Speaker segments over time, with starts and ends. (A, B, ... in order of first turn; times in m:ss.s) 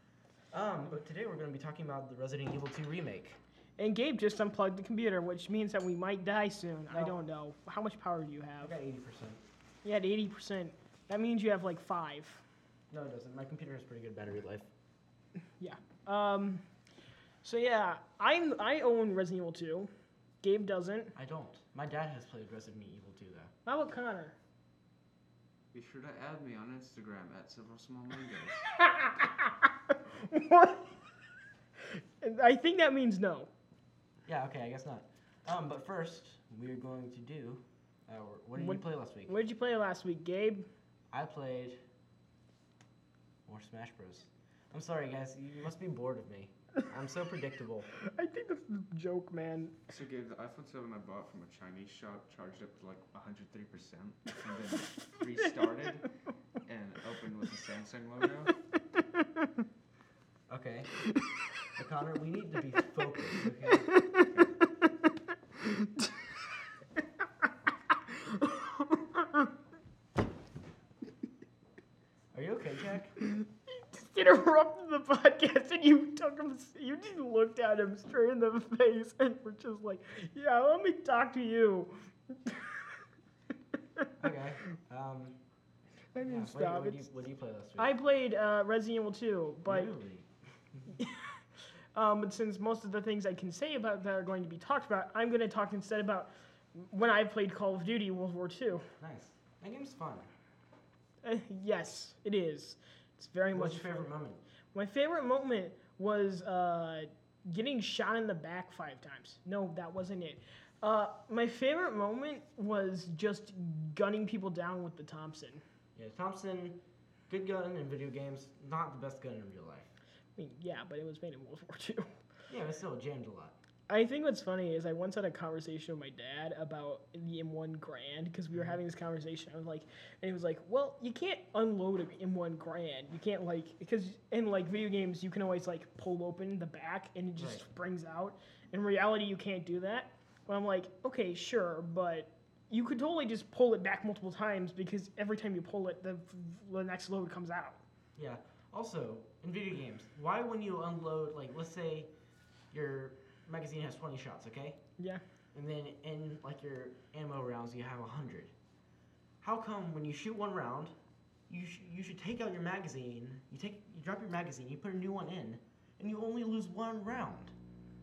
0:00.5-0:03.4 A
0:03.8-0:08.7 B
0:06.9-0:07.2 A
0:08.6-0:09.4 A
0:09.8-0:12.4 B
0:12.9-0:14.7 A
0:15.6-0:16.6 B
0:17.4-0:19.9 B
0:20.4-0:21.1 B
0:21.1-0:23.5 A
0:23.6-0:24.4 B
0:25.7-0:28.7 C
0:28.8-0:30.9 B
0:31.8-0:33.5 B
0:34.2-0:39.3 A
0:38.6-0:40.7 B
0:41.1-0:41.8 A
0:43.4-0:47.9 A
0:48.0-0:49.8 B
0:49.9-0:56.1 C
0:56.6-0:58.6 C
0:59.1-0:59.4 B
1:00.5-1:01.0 A
1:01.7-1:04.4 A
1:03.9-1:04.3 B
1:05.6-1:06.1 B
1:07.9-1:09.5 B
1:12.3-1:13.2 A
1:13.2-1:22.9 B
1:24.2-1:25.4 A
1:26.1-1:27.0 B
1:26.2-1:28.0 A
1:27.8-1:29.9 B
1:29.6-1:30.3 A
1:30.9-1:31.4 B
1:31.9-1:38.9 B
1:39.0-1:40.3 A
1:41.2-1:44.1 B
1:43.5-1:44.4 A
1:44.7-1:55.6 B
1:56.0-1:59.9 A
2:00.4-2:02.1 B
2:02.5-2:03.6 A
2:03.9-2:27.8 B
2:17.4-2:17.6 A
2:28.2-2:32.1 A
2:32.7-2:34.8 A
2:35.5-2:38.5 A
2:39.4-2:41.0 A
2:41.5-2:47.5 A